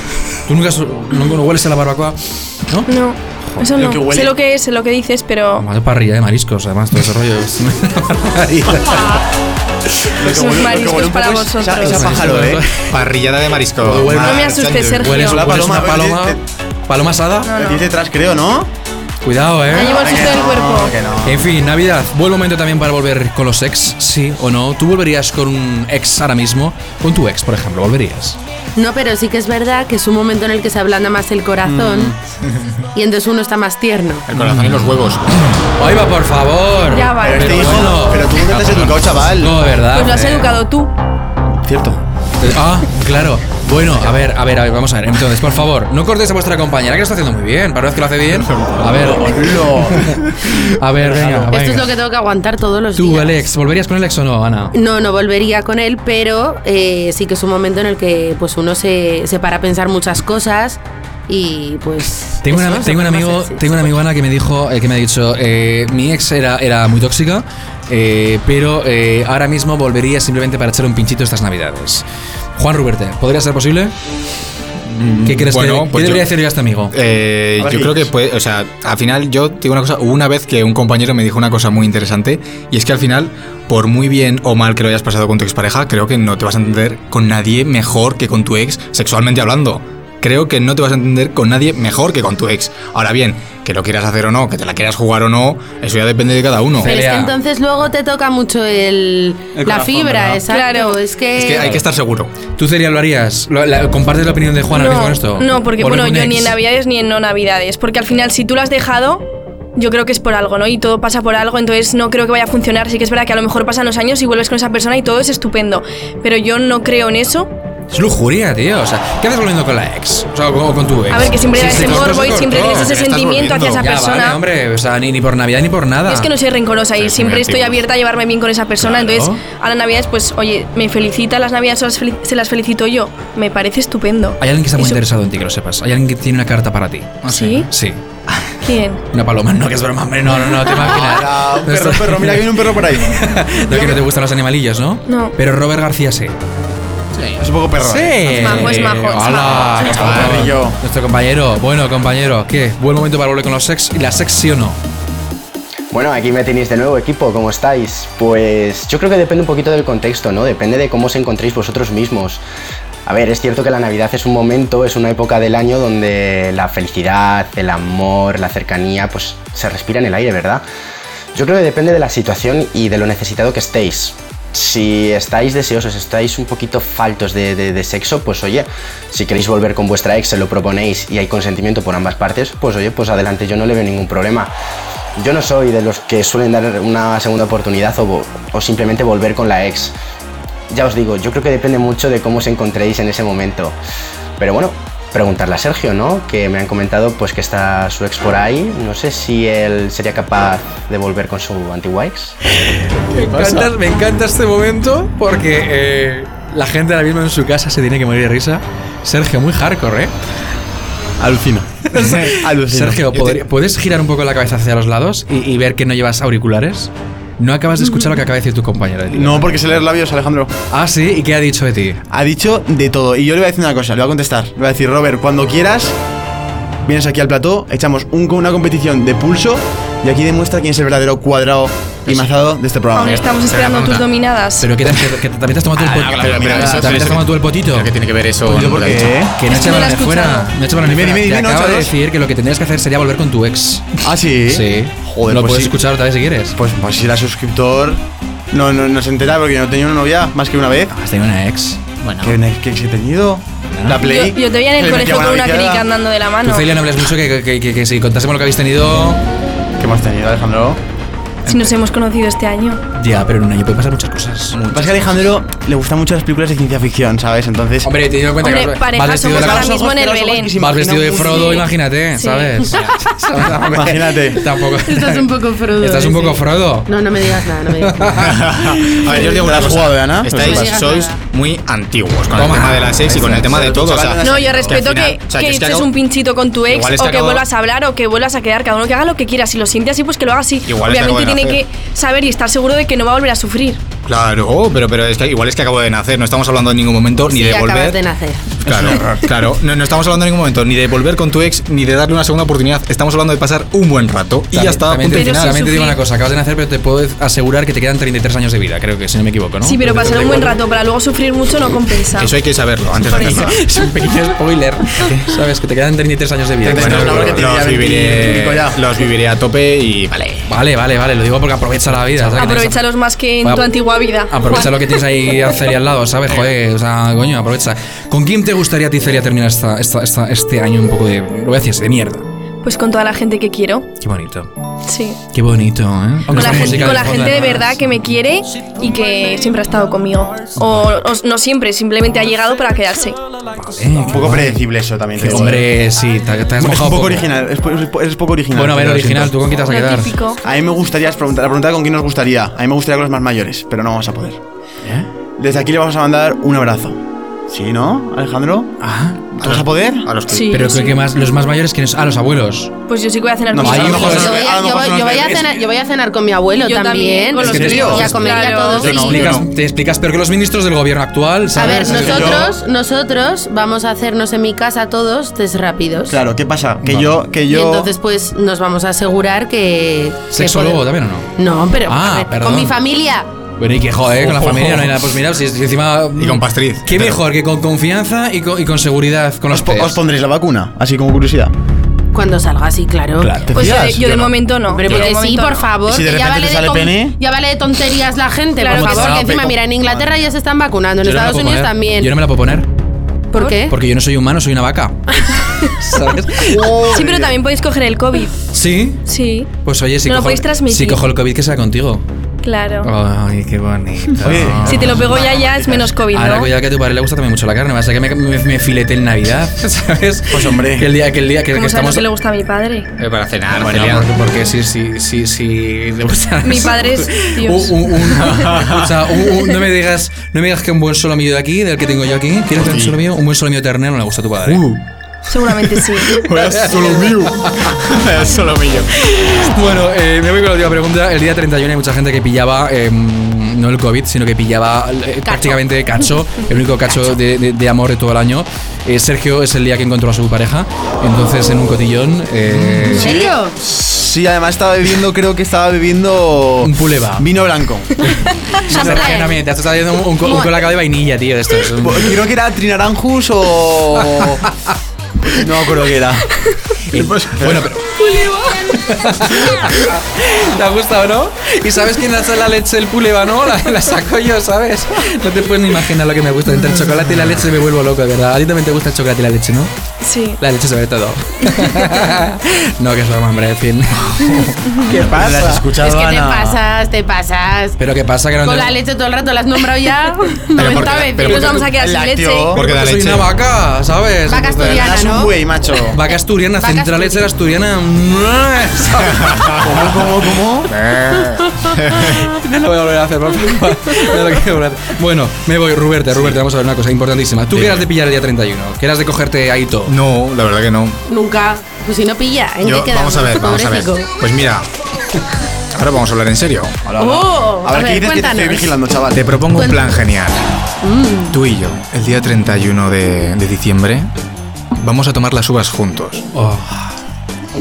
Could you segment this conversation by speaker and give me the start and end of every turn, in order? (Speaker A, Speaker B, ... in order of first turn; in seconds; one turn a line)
Speaker A: 0.5-2.9
Speaker B: 2.9-5.7
Speaker C: 3.7-4.3
Speaker A: 5.6-9.2
Speaker C: 10.2-12.6
Speaker B: 10.2-12.3
Speaker A: 11.8-12.9
Speaker D: 12.9-15.1
Speaker A: 13.8-17.5
Speaker B: 14.2-15.4
Speaker C: 15.1-16.4
Speaker B: 17.4-17.9
Speaker C: 17.5-18.7
Speaker A: 19.2-20.0
Speaker B: 19.7-20.9
Speaker C: 19.8-21.4
Speaker A: 21.2-28.4
Speaker E: 28.8-32.1
Speaker C: 31.6-32.1
Speaker E: 32.9-34.3
Speaker D: 34.3-35.3
Speaker A: 34.4-34.9
Speaker A: 35.8-40.5
Speaker B: 36.9-38.0
Speaker C: 37.2-39.6
Speaker D: 38.7-39.0
Speaker B: 39.9-40.9
Speaker C: 41.6-42.0
Speaker A: 42.4-50.2
Speaker D: 48.5-48.8
Speaker C: 49.0-50.0
Speaker A: 50.7-51.9
Speaker C: 51.1-51.4
Speaker E: 51.4-53.4
Speaker A: 52.9-54.7
Speaker E: 54.7-64.0
Speaker A: 62.4-72.0
Speaker A: 72.5-73.9
Speaker D: 74.8-76.3
Speaker A: 75.2-76.9
Speaker D: 76.9-97.0
Speaker C: 77.6-78.1
Speaker A: 96.8-97.3
Speaker E: 96.8-101.8
Speaker B: 100.5-101.0
Speaker D: 101.3-102.3
Speaker A: 102.5-106.5
Speaker B: 104.7-109.2
Speaker B: 109.8-117.5
Speaker A: 117.9-122.9
Speaker B: 121.1-124.4
Speaker D: 121.6-123.9
Speaker A: 123.8-126.3
Speaker B: 126.0-135.0
Speaker D: 127.0-127.8
Speaker A: 128.8-129.3
Speaker A: 134.4-138.0
Speaker D: 137.2-137.7
Speaker B: 137.2-137.7
Speaker B: 138.6-139.0
Speaker A: 139.1-146.3
Speaker C: 140.7-144.0
Speaker B: 145.1-145.3
Speaker D: 147.1-147.4
Speaker C: 147.4-148.9
Speaker A: 147.8-154.8
Speaker B: 148.2-150.1
Speaker C: 149.7-150.8
Speaker F: 155.9-162.4
Speaker F: 163.1-170.6
Speaker F: 171.3-184.5
Speaker F: 185.2-189.9
Speaker F: 190.7-193.8
Speaker F: 194.4-202.4
Speaker A: 202.5-210.1
Speaker C: 203.3-203.6
Speaker C: 211.2-213.4
Speaker A: 211.9-219.6
Speaker C: 219.1-220.5
Speaker A: 220.7-222.0
Speaker C: 222.1-225.9
Speaker C: 226.8-233.3
Speaker D: 232.1-232.3
Speaker B: 232.9-234.7
Speaker D: 233.3-234.1
Speaker A: 234.6-237.9
Speaker C: 235.8-237.1
Speaker D: 235.9-239.2
Speaker C: 238.4-239.3
Speaker A: 239.3-246.5
Speaker B: 239.5-240.5
Speaker C: 240.8-241.9
Speaker C: 244.0-245.8
Speaker C: 246.5-248.0
Speaker C: 248.5-250.9
Speaker A: 250.9-251.8
Speaker D: 252.0-252.4
Speaker C: 252.2-255.8
Speaker A: 253.7-254.0
Speaker B: 254.0-256.7
Speaker A: 256.4-259.2
Speaker C: 259.8-260.8
Speaker B: 261.4-262.8
Speaker A: 262.9-264.6
Speaker D: 264.5-265.2
Speaker C: 264.7-267.9
Speaker A: 267.8-269.8
Speaker B: 268.4-270.5
Speaker C: 269.3-271.7
Speaker A: 270.6-276.9
Speaker B: 272.1-272.7
Speaker C: 273.7-274.4
Speaker E: 274.8-278.2
Speaker A: 277.8-279.0
Speaker D: 278.1-285.9
Speaker C: 279.1-280.8
Speaker E: 279.2-279.6
Speaker E: 280.3-281.1
Speaker A: 282.4-282.7
Speaker C: 282.4-285.2
Speaker B: 284.2-293.8
Speaker D: 286.6-287.4
Speaker D: 290.6-291.6
Speaker D: 294.1-298.0
Speaker E: 297.3-298.5
Speaker D: 298.6-305.7
Speaker C: 298.6-299.2
Speaker A: 304.5-310.5
Speaker B: 305.1-306.0
Speaker B: 309.6-312.4
Speaker D: 312.1-313.6
Speaker A: 313.1-317.4
Speaker B: 313.1-313.4
Speaker D: 315.0-315.3
Speaker C: 316.6-318.8
Speaker D: 316.7-320.5
Speaker A: 320.5-322.8
Speaker B: 322.4-324.7
Speaker A: 323.4-323.7
Speaker A: 324.3-332.2
Speaker B: 332.6-333.9
Speaker A: 334.0-334.5
Speaker B: 334.9-335.2
Speaker A: 335.3-337.7
Speaker B: 336.3-343.2
Speaker A: 343.5-344.6
Speaker C: 344.0-345.7
Speaker A: 345.2-347.2
Speaker C: 346.6-349.4
Speaker A: 348.5-350.1
Speaker B: 349.6-350.4
Speaker C: 350.4-354.4
Speaker C: 355.4-358.7
Speaker A: 358.8-359.2
Speaker D: 359.4-360.6
Speaker C: 359.4-360.1
Speaker B: 360.3-361.0
Speaker A: 360.5-362.7
Speaker B: 362.9-364.3
Speaker C: 363.5-365.6
Speaker A: 363.6-364.5
Speaker E: 364.0-369.2
Speaker B: 366.6-369.3
Speaker C: 367.4-368.2
Speaker A: 367.5-372.5
Speaker C: 368.8-369.4
Speaker E: 371.6-376.2
Speaker C: 371.6-372.5
Speaker C: 376.1-377.9
Speaker E: 377.5-380.8
Speaker A: 380.3-381.3
Speaker E: 381.4-383.3
Speaker A: 381.9-382.8
Speaker A: 383.6-390.0
Speaker D: 384.4-384.6
Speaker C: 384.4-384.7
Speaker D: 386.2-387.2
Speaker C: 389.5-391.5
Speaker E: 392.1-393.4
Speaker A: 393.2-393.5
Speaker C: 393.5-394.4
Speaker B: 393.5-395.8
Speaker E: 394.7-402.1
Speaker C: 395.8-397.2
Speaker B: 398.6-399.2
Speaker A: 398.6-399.6
Speaker A: 401.0-402.6
Speaker E: 403.3-403.7
Speaker B: 403.4-403.6
Speaker A: 403.7-406.8
Speaker C: 406.5-407.3
Speaker B: 406.8-408.4
Speaker A: 408.5-409.0
Speaker B: 409.1-409.5
Speaker A: 409.6-412.0
Speaker B: 410.1-411.1
Speaker B: 412.4-412.9
Speaker A: 412.8-415.1
Speaker C: 414.2-415.9
Speaker B: 414.7-416.5
Speaker A: 416.1-422.0
Speaker C: 420.3-420.9
Speaker B: 421.5-422.9
Speaker D: 423.0-424.1
Speaker A: 423.6-434.6
Speaker B: 426.4-428.4
Speaker D: 428.3-429.0
Speaker D: 432.5-433.0
Speaker D: 434.4-434.8
Speaker B: 435.3-436.3
Speaker D: 436.0-438.9
Speaker A: 436.4-437.8
Speaker A: 439.0-453.1
Speaker E: 445.2-446.1
Speaker D: 452.4-453.1
Speaker E: 452.9-453.6
Speaker C: 453.1-457.9
Speaker A: 456.6-457.3
Speaker A: 458.0-462.1
Speaker E: 458.7-459.4
Speaker E: 460.2-460.7
Speaker C: 461.8-464.4
Speaker A: 464.0-464.7
Speaker C: 465.2-466.2
Speaker A: 466.9-479.7
Speaker D: 466.9-467.5
Speaker C: 467.4-467.6
Speaker B: 480.0-480.4
Speaker A: 480.4-485.6
Speaker B: 484.7-485.0
Speaker C: 485.0-486.6
Speaker E: 485.7-487.8
Speaker A: 487.8-488.8
Speaker E: 488.4-491.6
Speaker D: 490.5-491.7
Speaker B: 490.6-492.5
Speaker C: 491.5-492.6
Speaker D: 492.5-493.3
Speaker A: 492.5-495.0
Speaker E: 494.3-495.4
Speaker C: 494.5-496.0
Speaker A: 495.9-500.2
Speaker E: 496.6-497.3
Speaker D: 499.1-500.1
Speaker C: 499.6-500.7
Speaker D: 500.7-502.2
Speaker A: 502.0-509.9
Speaker D: 507.5-507.8
Speaker D: 509.9-511.0
Speaker E: 511.1-514.1
Speaker D: 512.6-514.7
Speaker D: 515.7-516.9
Speaker C: 516.9-519.4
Speaker E: 517.0-518.8
Speaker D: 519.1-520.4
Speaker E: 519.5-519.8
Speaker E: 520.8-521.4
Speaker D: 521.3-524.1
Speaker D: 524.8-526.2
Speaker A: 526.3-526.9